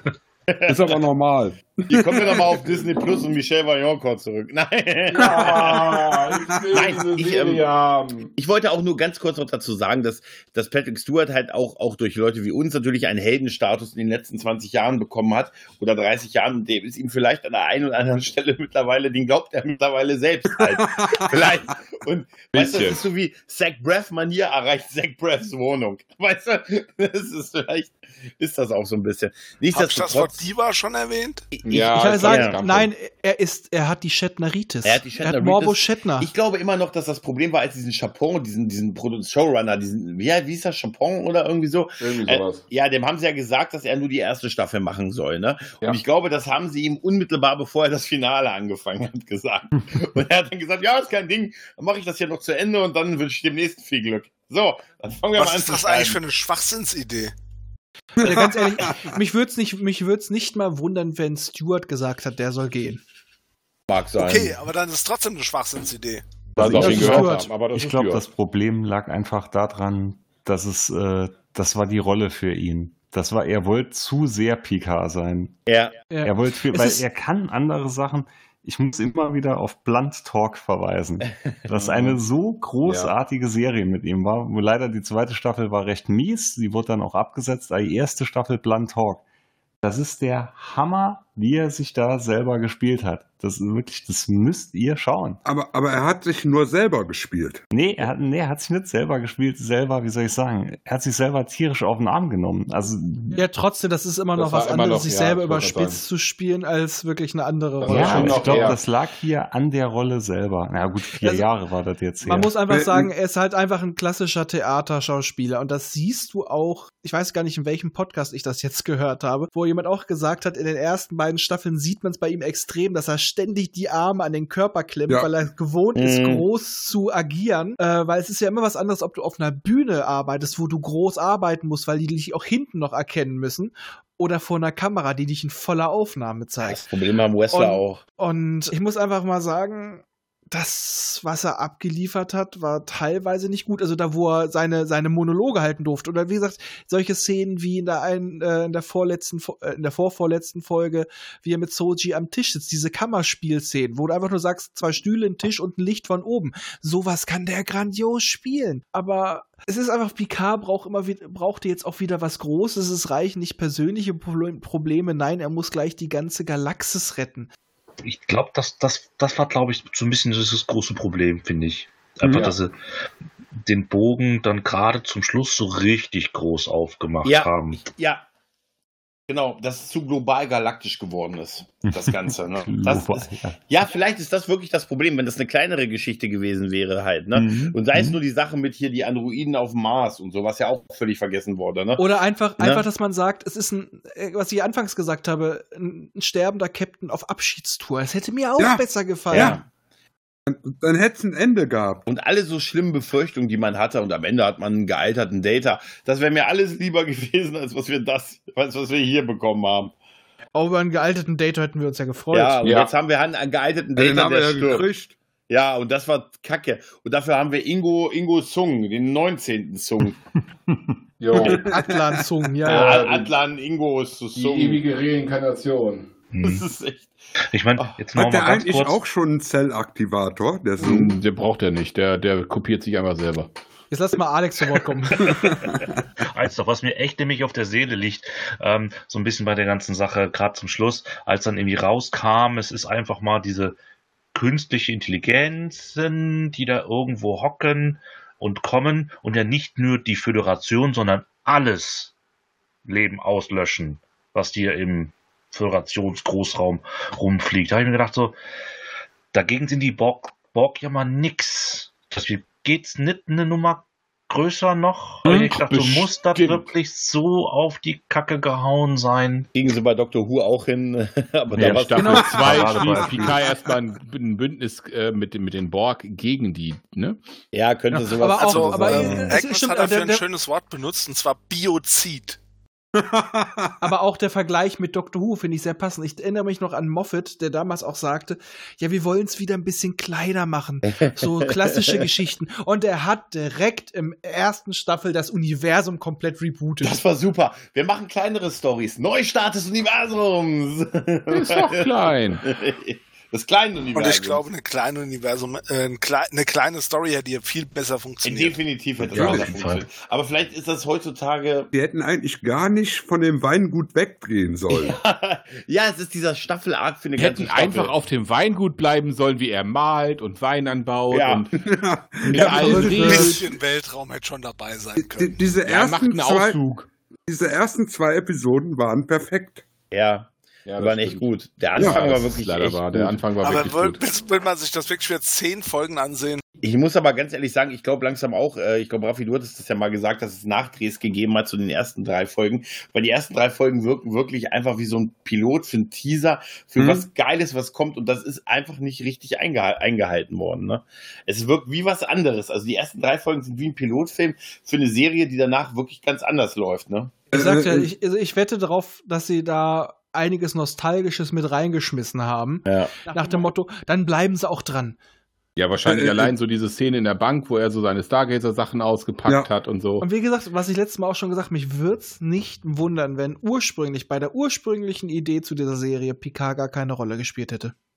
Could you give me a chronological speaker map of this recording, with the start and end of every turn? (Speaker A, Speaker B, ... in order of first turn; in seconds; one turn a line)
Speaker A: 0.5-1.0
Speaker B: 0.7-2.6
Speaker A: 1.9-6.2
Speaker C: 5.1-8.3
Speaker B: 5.2-6.9
Speaker A: 6.7-7.7
Speaker A: 8.4-30.4
Speaker B: 20.7-21.6
Speaker C: 22.5-23.0
Speaker D: 29.7-31.5
Speaker A: 31.5-32.5
Speaker C: 31.6-32.9
Speaker E: 31.9-36.3
Speaker A: 34.8-56.2
Speaker C: 42.0-42.7
Speaker D: 55.4-57.3
Speaker B: 58.2-58.9
Speaker E: 58.2-63.0
Speaker A: 63.9-64.6
Speaker D: 64.2-66.2
Speaker C: 66.6-68.3
Speaker F: 66.6-75.6
Speaker E: 66.6-67.5
Speaker A: 75.7-76.0
Speaker E: 76.1-77.0
Speaker F: 76.2-89.2
Speaker A: 81.7-82.2
Speaker C: 82.8-83.1
Speaker F: 89.8-95.4
Speaker B: 95.4-97.6
Speaker F: 97.7-103.4
Speaker E: 103.3-108.4
Speaker C: 104.3-106.0
Speaker C: 107.8-108.8
Speaker F: 107.8-112.5
Speaker E: 111.2-111.4
Speaker E: 112.2-136.8
Speaker A: 126.0-126.4
Speaker A: 136.6-138.0
Speaker E: 137.5-167.5
Speaker G: 168.0-172.7
Speaker G: 173.6-177.8
Speaker A: 177.2-178.2
Speaker A: 179.3-192.0
Speaker F: 181.9-183.6
Speaker F: 187.3-188.2
Speaker E: 192.0-199.6
Speaker B: 198.6-199.6
Speaker A: 199.3-199.6
Speaker B: 200.5-202.1
Speaker A: 202.1-209.9
Speaker E: 210.5-212.6
Speaker A: 212.3-214.8
Speaker C: 212.6-212.9
Speaker B: 213.9-215.2
Speaker A: 215.5-220.2
Speaker C: 221.2-221.7
Speaker B: 221.4-222.2
Speaker E: 221.5-222.9
Speaker A: 222.6-224.8
Speaker C: 222.7-223.3
Speaker C: 224.3-226.1
Speaker G: 226.3-226.7
Speaker A: 226.4-227.1
Speaker G: 227.5-229.0
Speaker B: 228.1-231.1
Speaker C: 230.8-233.5
Speaker E: 233.9-235.5
Speaker G: 236.2-243.8
Speaker G: 244.3-252.1
Speaker G: 252.8-258.4
Speaker G: 259.3-269.5
Speaker C: 265.2-266.7
Speaker A: 269.5-272.9
Speaker C: 271.5-277.2
Speaker G: 271.7-273.4
Speaker A: 277.5-279.4
Speaker E: 277.9-280.2
Speaker D: 278.2-282.4
Speaker B: 283.0-283.8
Speaker E: 283.8-297.0
Speaker A: 290.9-292.0
Speaker A: 296.8-304.4
Speaker C: 301.3-302.4
Speaker D: 303.9-308.6
Speaker A: 308.2-311.7
Speaker B: 309.0-309.5
Speaker G: 309.1-309.9
Speaker B: 311.7-314.9
Speaker A: 314.7-317.9
Speaker C: 317.2-321.5
Speaker A: 321.1-321.5
Speaker B: 321.6-323.5
Speaker C: 322.3-323.4
Speaker E: 322.3-323.3
Speaker D: 322.5-325.4
Speaker B: 325.0-329.6
Speaker C: 325.6-326.9
Speaker A: 329.9-332.8
Speaker C: 330.6-334.0
Speaker B: 331.8-332.0
Speaker D: 333.4-336.4
Speaker A: 336.6-357.2
Speaker B: 346.8-347.1
Speaker E: 357.3-365.0
Speaker B: 357.3-357.9
Speaker A: 362.7-362.9
Speaker C: 365.6-370.1
Speaker B: 365.8-366.3
Speaker E: 370.0-377.7